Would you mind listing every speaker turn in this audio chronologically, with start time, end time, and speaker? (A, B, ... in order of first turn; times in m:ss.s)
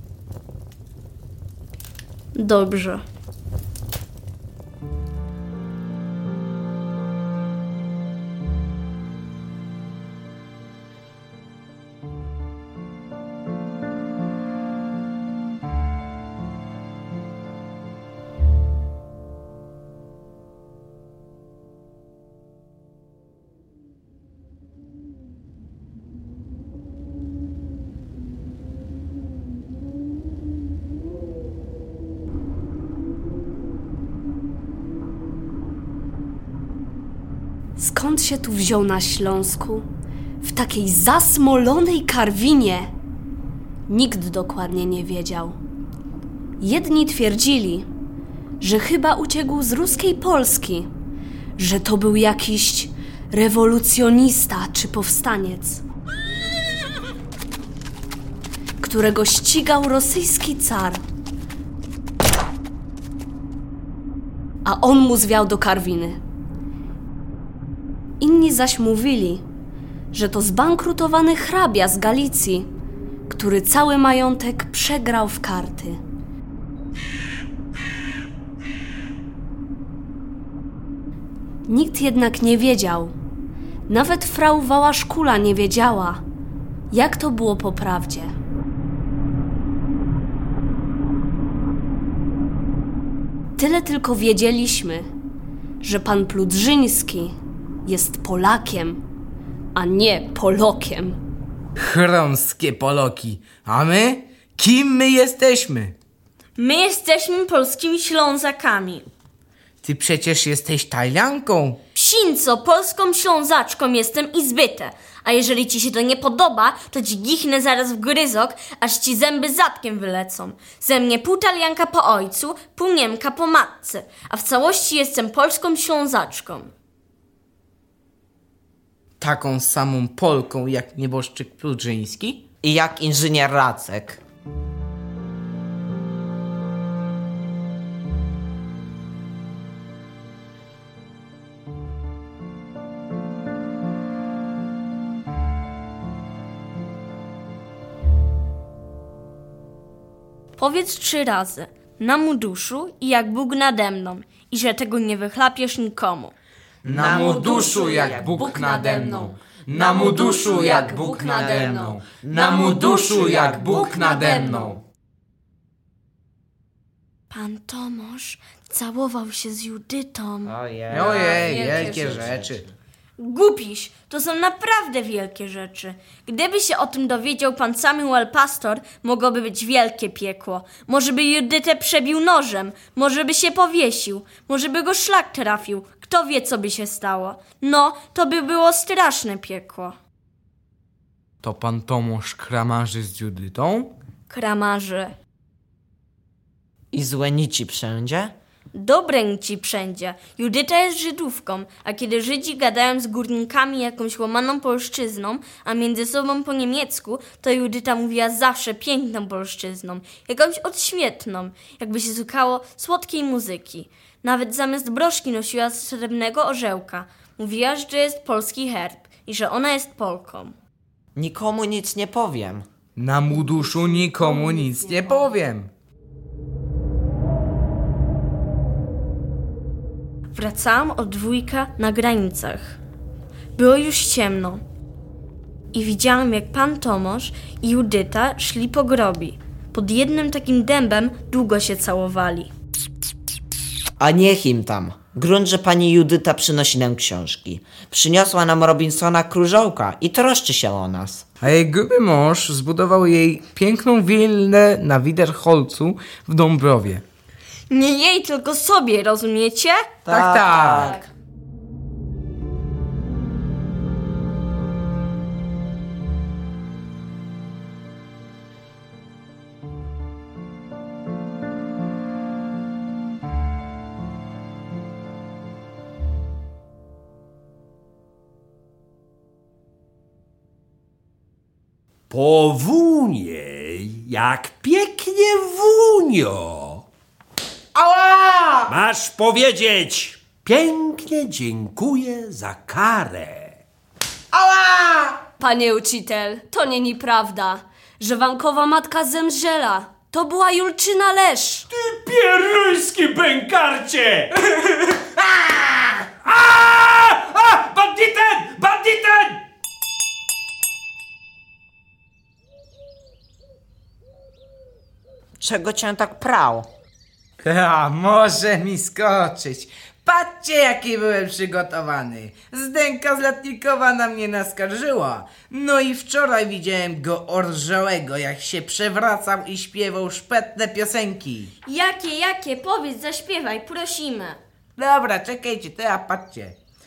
0:02.3-0:03.0 A
0:37.8-0:39.9 B
0:40.4-0:42.9 B
0:43.9-0:45.6 B
0:46.6-0:47.9 B
0:48.6-0:50.9 B
0:51.6-0:55.8 B
0:58.8-1:01.0 B
1:04.6-1:06.2 B
1:08.2-1:09.4 B
1:10.1-1:12.7 B
1:13.3-1:16.0 B
1:21.7-1:23.1 B
1:23.9-1:26.2 B
1:26.9-1:28.3 B
1:33.6-1:35.1 B
1:35.8-1:39.0 B
1:39.7-1:41.2 B
1:41.8-1:45.9 C
1:46.6-1:49.1 A
1:49.8-1:51.8 C
1:51.9-2:06.7 A
2:09.2-2:12.4 C
2:12.6-2:14.2 D
2:30.6-2:36.3 A
2:36.8-2:38.6 D
2:36.8-2:44.7 C
2:37.9-2:42.6 B
2:40.5-2:44.8 D
2:43.7-2:44.6 B
2:47.3-2:50.5 A
2:50.4-2:52.7 D
2:50.9-2:52.6 C
2:51.1-2:52.1 B
2:53.2-3:10.0 A
3:11.4-3:13.9 C
3:14.3-3:15.1 A
3:16.9-3:18.3 D
3:18.7-3:40.5 A
3:41.2-3:42.6 D
3:43.0-3:45.7 C
3:43.4-3:45.1 B
3:50.3-3:52.8 A
3:53.6-3:54.6 A
3:55.7-4:02.5 A
4:04.0-4:11.2 D
4:11.4-4:17.0 C
4:17.7-4:19.8 A
4:20.0-4:21.1 D
4:20.1-4:21.0 C
4:42.1-4:46.8 E
4:47.7-4:48.7 C
4:48.7-4:53.6 E
4:54.3-4:55.3 C
4:55.4-5:01.6 B
5:01.7-5:05.6 E
5:06.2-5:09.4 E
5:15.4-5:16.7 D
5:17.4-5:31.5 C
5:31.6-5:34.4 A
5:34.8-5:36.6 C